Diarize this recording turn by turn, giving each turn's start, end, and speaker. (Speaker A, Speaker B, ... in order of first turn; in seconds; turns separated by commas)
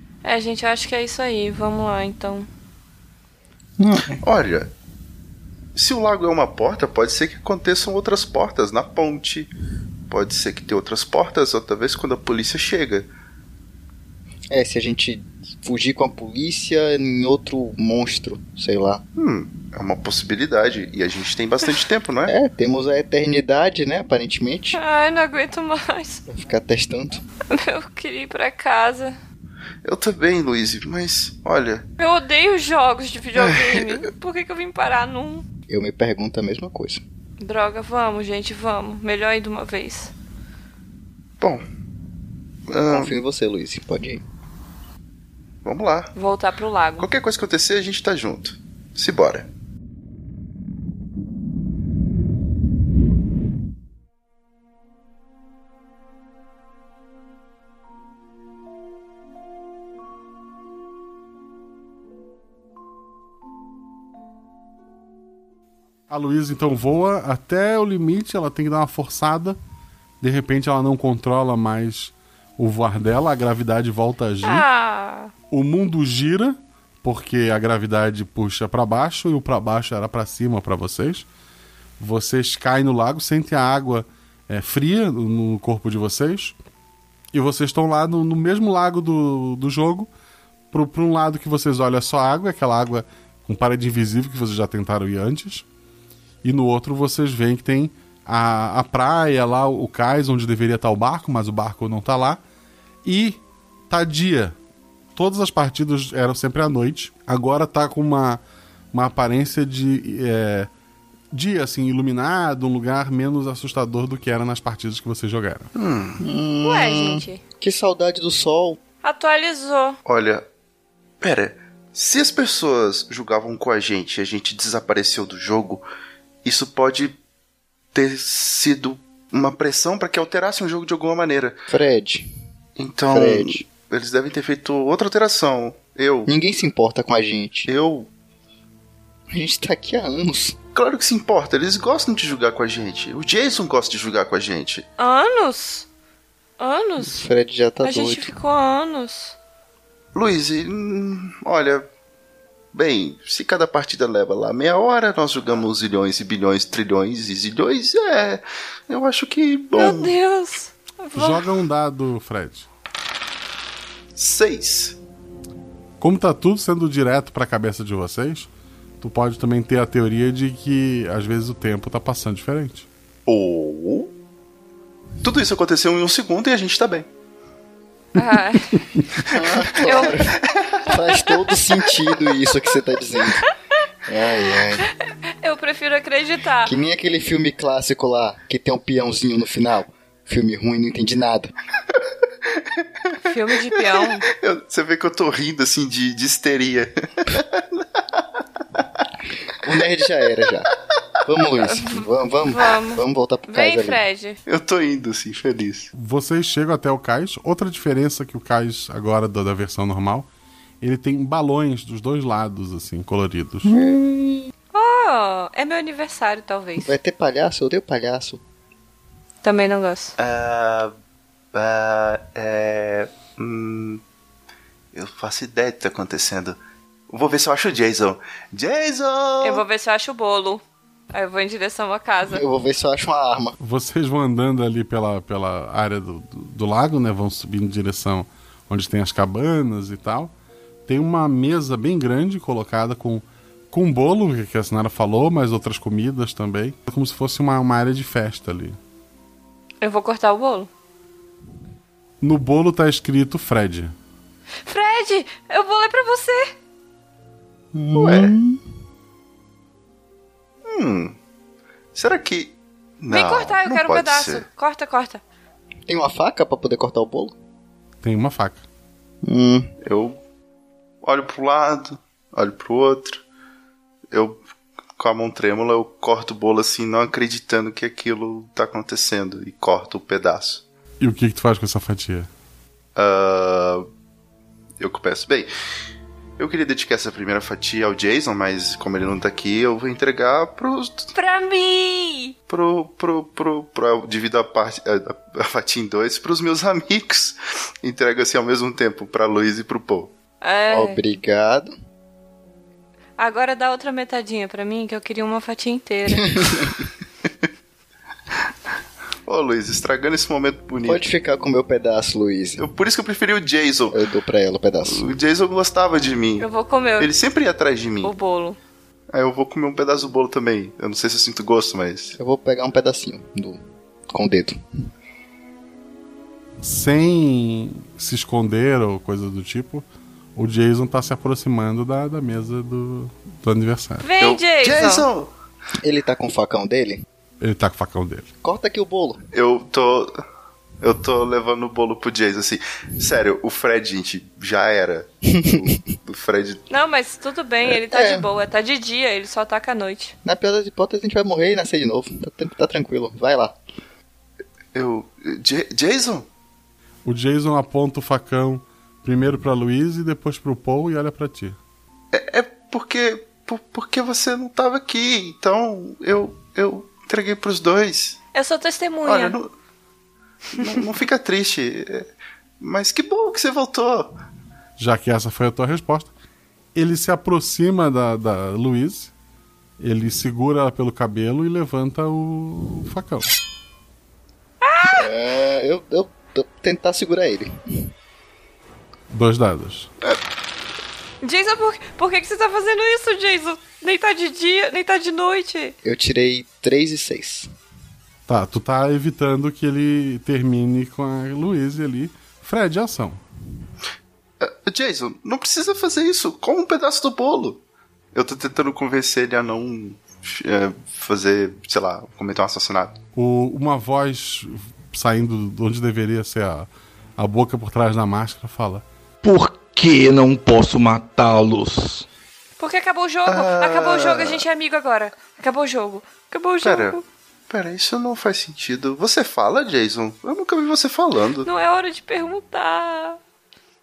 Speaker A: 0.2-2.5, Speaker B: 3.8-4.2, Speaker C: 4.2-4.7, Speaker C: 5.8-9.5, Speaker C: 10.1-13.1, Speaker B: 14.5-19.0, Speaker C: 19.2-22.3, Speaker B: 22.3-24.8, Speaker A: 24.8-26.2, Speaker B: 26.3-27.2, Speaker A: 27.5-29.2, Speaker C: 29.8-31.9, Speaker A: 32.0-35.5, Speaker C: 33.4-34.0, Speaker B: 35.7-37.0, Speaker A: 37.4-40.1, Speaker C: 42.7-43.1, Speaker B: 42.9-44.2, Speaker C: 45.6-46.1, Speaker A: 46.2-47.1, Speaker C: 47.0-49.5, Speaker D: 66.1-69.6, Speaker D: 70.2-74.7, Speaker A: 74.4-75.3, Speaker D: 75.5-81.3, Speaker D: 82.0-86.5, Speaker D: 87.3-90.1, Speaker D: 90.7-95.7, Speaker D: 96.4-102.4, Speaker D: 103.0-104.5, Speaker D: 105.2-108.4, Speaker D: 108.9-110.7, Speaker D: 111.3-115.7, Speaker C: 115.8-116.2, Speaker B: 116.2-118.8, Speaker A: 116.6-117.4, Speaker A: 119.0-120.0, Speaker C: 120.0-120.5, Speaker C: 121.2-125.8, Speaker C: 126.5-127.2, Speaker C: 127.9-131.6, Speaker B: 131.7-132.3, Speaker C: 132.8-136.3, Speaker B: 133.1-133.6, Speaker B: 136.3-137.7, Speaker C: 137.7-138.1, Speaker B: 139.3-140.6, Speaker C: 140.8-144.9, Speaker A: 145.0-145.9, Speaker A: 146.6-147.2, Speaker B: 147.0-148.3, Speaker A: 147.8-149.4, Speaker C: 150.1-151.9, Speaker C: 152.7-160.2, Speaker A: 159.7-161.4, Speaker D: 161.2-162.7, Speaker C: 164.2-165.0, Speaker D: 166.0-168.5, Speaker D: 169.0-172.9, Speaker C: 173.3-174.1, Speaker C: 175.2-177.1, Speaker A: 178.2-178.8, Speaker B: 179.3-183.5, Speaker A: 179.8-180.2, Speaker C: 180.4-180.7, Speaker B: 184.1-184.9, Speaker A: 185.4-186.7, Speaker B: 186.6-191.5, Speaker C: 192.5-193.3, Speaker A: 193.2-194.3, Speaker C: 194.2-197.9, Speaker B: 199.6-200.7, Speaker B: 201.2-204.0, Speaker A: 201.6-204.4, Speaker C: 204.5-205.9, Speaker D: 205.9-210.3, Speaker D: 210.8-213.8, Speaker B: 213.6-214.5, Speaker A: 214.7-216.9, Speaker B: 216.8-218.4, Speaker A: 219.4-220.1, Speaker C: 220.2-220.9, Speaker C: 221.5-224.0, Speaker C: 224.9-226.6, Speaker C: 227.1-229.6, Speaker A: 229.4-230.6, Speaker A: 231.1-232.4, Speaker B: 232.3-233.6, Speaker D: 233.6-240.3, Speaker D: 240.9-248.8, Speaker A: 249.8-250.7, Speaker D: 252.2-253.9, Speaker A: 254.7-256.5, Speaker B: 257.7-258.6, Speaker C: 257.9-258.3, Speaker C: 260.6-261.2, Speaker C: 261.9-264.4, Speaker A: 263.1-265.2, Speaker B: 265.9-267.3, Speaker D: 268.0-268.6, Speaker B: 269.2-269.7, Speaker C: 269.8-270.2, Speaker C: 271.0-273.2, Speaker C: 274.1-274.4, Speaker C: 275.0-280.6, Speaker D: 281.0-282.3, Speaker C: 282.9-283.9, Speaker C: 284.8-285.5, Speaker C: 286.4-291.1, Speaker A: 291.1-292.3, Speaker C: 292.5-300.1, Speaker A: 300.4-301.0, Speaker B: 300.7-301.7, Speaker A: 303.2-306.4, Speaker B: 306.3-306.7, Speaker C: 309.3-311.0, Speaker B: 310.9-312.6, Speaker C: 312.6-314.0, Speaker B: 313.9-315.0, Speaker C: 314.9-316.5, Speaker A: 316.4-317.1, Speaker C: 317.0-318.1, Speaker A: 318.0-318.6, Speaker C: 319.1-322.2, Speaker B: 322.2-324.6, Speaker D: 326.6-334.1, Speaker A: 334.0-335.1, Speaker C: 334.2-335.3, Speaker B: 335.8-337.1, Speaker D: 337.4-338.3, Speaker B: 338.4-339.2, Speaker C: 339.3-340.1, Speaker C: 340.8-346.6, Speaker A: 346.7-350.1, Speaker B: 347.7-348.3, Speaker B: 350.2-353.6, Speaker C: 354.7-356.3, Speaker D: 357.1-361.6, Speaker C: 362.1-368.2, Speaker A: 368.3-369.4, Speaker C: 369.1-369.5, Speaker C: 370.6-374.2, Speaker D: 374.8-376.1, Speaker D: 376.8-379.1, Speaker D: 379.8-383.3, Speaker A: 384.6-385.1, Speaker B: 384.8-387.9, Speaker D: 389.1-389.9, Speaker A: 391.2-395.7, Speaker B: 395.8-397.5, Speaker D: 398.3-403.2, Speaker C: 404.4-407.6, Speaker C: 408.1-413.0, Speaker D: 413.1-418.8, Speaker E: 419.3-421.7, Speaker A: 422.6-427.0, Speaker C: 423.3-424.4, Speaker C: 426.6-427.0, Speaker C: 427.5-431.5, Speaker A: 431.4-433.2